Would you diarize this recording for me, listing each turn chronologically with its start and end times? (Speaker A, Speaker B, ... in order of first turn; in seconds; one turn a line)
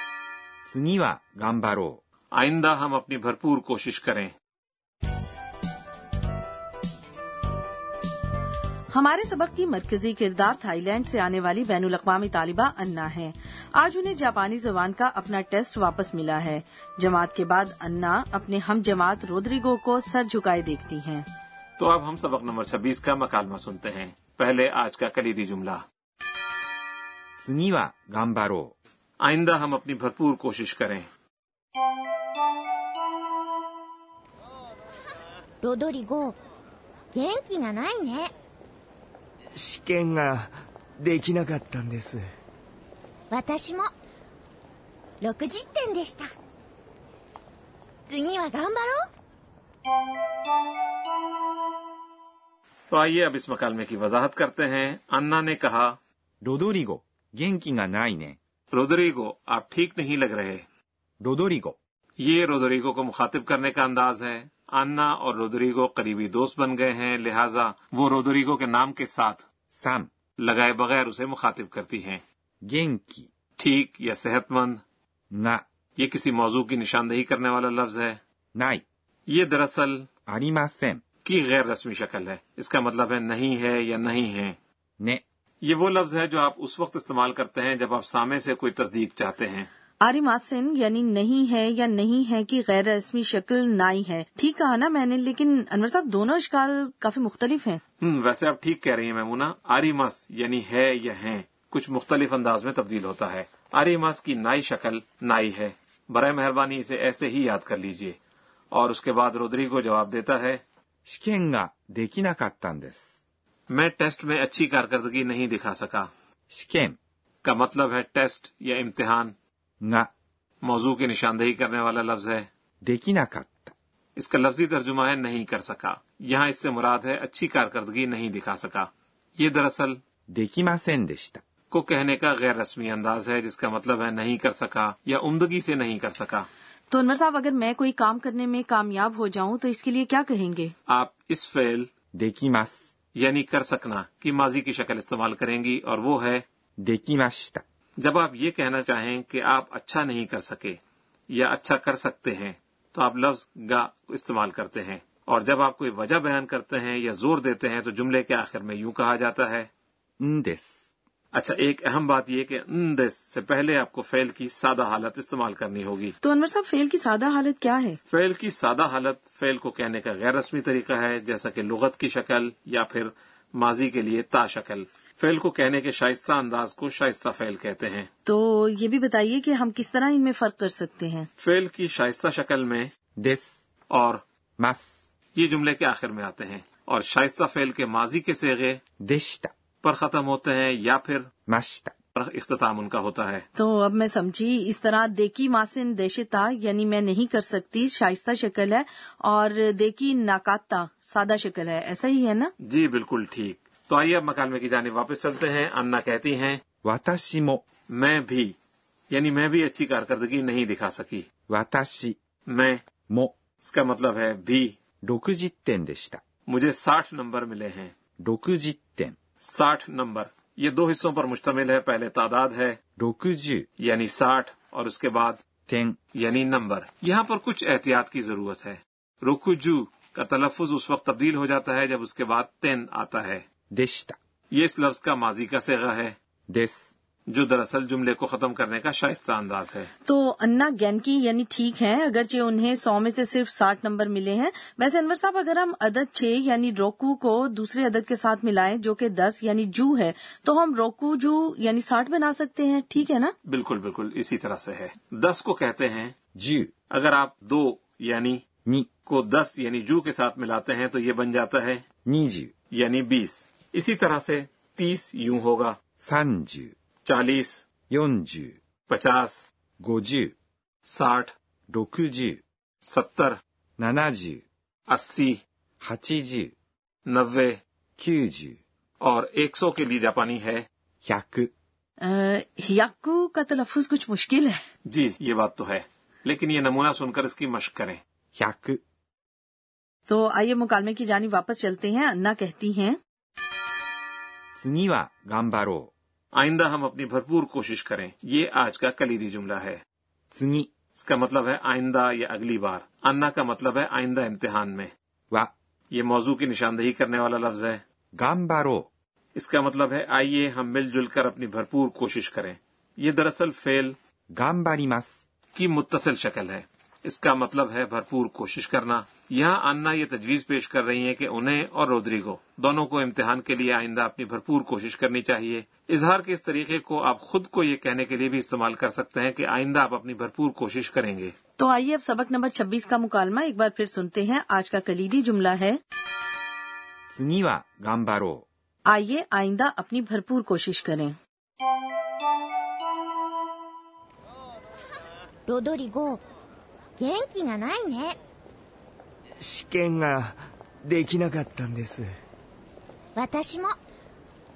Speaker A: 0.7-2.0
Speaker B: 2.3-4.3
Speaker C: 8.9-21.2
Speaker B: 21.8-25.8
Speaker A: 27.4-28.7
Speaker B: 29.2-31.1
Speaker D: 35.6-36.3
Speaker D: 37.1-38.3
Speaker E: 39.5-42.3
Speaker D: 43.3-43.9
Speaker D: 45.2-46.3
Speaker D: 48.1-49.0
Speaker B: 52.9-56.0
Speaker A: 56.4-58.4
Speaker B: 58.7-60.6
Speaker A: 61.2-61.8
Speaker B: 62.2-69.4
Speaker A: 69.7-70.1
Speaker B: 70.4-72.2
Speaker A: 72.6-73.3
Speaker B: 73.6-74.8
Speaker A: 75.3-75.6
Speaker B: 76.0-78.2
Speaker A: 78.5-78.8
Speaker B: 79.3-80.1
Speaker A: 80.3-81.0
Speaker B: 81.2-84.6
Speaker B: 85.6-89.7
Speaker C: 90.0-97.8
Speaker B: 98.0-108.2
Speaker B: 108.7-110.6
Speaker A: 111.1-113.1
Speaker B: 113.7-116.1
Speaker A: 116.5-117.0
Speaker B: 117.4-119.3
Speaker A: 119.8-120.1
Speaker B: 120.6-122.5
Speaker A: 122.8-123.7
Speaker B: 124.2-130.0
Speaker A: 130.3-131.4
Speaker B: 131.7-136.5
Speaker C: 136.9-140.7
Speaker B: 140.9-141.9
Speaker A: 142.2-142.8
Speaker B: 143.2-146.4
Speaker A: 146.8-147.6
Speaker B: 148.0-150.8
Speaker B: 151.3-159.7
Speaker A: 160.2-160.7
Speaker B: 161.3-166.2
Speaker C: 166.2-168.0
Speaker B: 168.1-178.1
Speaker C: 178.2-181.3
Speaker B: 181.4-182.9
Speaker A: 183.2-183.6
Speaker B: 183.9-184.2
Speaker A: 184.6-184.9
Speaker B: 185.3-188.8
Speaker A: 189.0-189.5
Speaker B: 189.8-191.3
Speaker A: 191.5-191.9
Speaker B: 192.1-193.4
Speaker C: 193.6-202.5
Speaker B: 202.6-206.6
Speaker A: 206.8-207.6
Speaker B: 207.9-208.5
Speaker B: 209.1-211.2
Speaker A: 211.5-212.2
Speaker B: 212.5-212.8
Speaker B: 213.6-214.7
Speaker A: 215.0-216.2
Speaker B: 216.5-217.9
Speaker A: 218.2-219.2
Speaker B: 219.4-222.8
Speaker A: 223.0-223.7
Speaker B: 223.8-225.4
Speaker A: 225.7-226.0
Speaker B: 226.1-233.4
Speaker A: 233.7-234.2
Speaker B: 234.5-236.2
Speaker A: 236.5-236.9
Speaker B: 237.3-239.9
Speaker C: 240.0-253.3
Speaker B: 253.5-256.1
Speaker A: 256.4-256.7
Speaker B: 256.9-258.4
Speaker B: 259.1-261.8
Speaker A: 262.1-262.5
Speaker B: 262.7-265.8
Speaker A: 266.0-266.7
Speaker B: 267.0-267.6
Speaker A: 267.9-268.6
Speaker B: 268.9-269.4
Speaker A: 269.8-270.3
Speaker B: 270.9-271.3
Speaker A: 271.7-272.4
Speaker B: 272.9-273.4
Speaker A: 273.8-274.4
Speaker B: 274.9-275.4
Speaker A: 275.8-276.5
Speaker B: 277.1-277.6
Speaker A: 278.0-278.6
Speaker B: 279.0-280.7
Speaker A: 281.0-281.5
Speaker C: 282.0-284.6
Speaker B: 284.9-288.0
Speaker A: 288.4-288.8
Speaker C: 290.1-293.0
Speaker A: 294.6-295.9
Speaker B: 296.3-299.8
Speaker A: 300.3-300.7
Speaker B: 300.9-304.9
Speaker B: 305.9-307.8
Speaker A: 308.2-308.9
Speaker B: 309.3-313.9
Speaker A: 314.3-315.1
Speaker B: 315.5-331.3
Speaker C: 331.6-335.8
Speaker A: 337.1-338.4
Speaker C: 338.9-341.1
Speaker D: 345.5-346.2
Speaker D: 347.0-348.2
Speaker E: 349.4-352.1
Speaker D: 353.1-353.8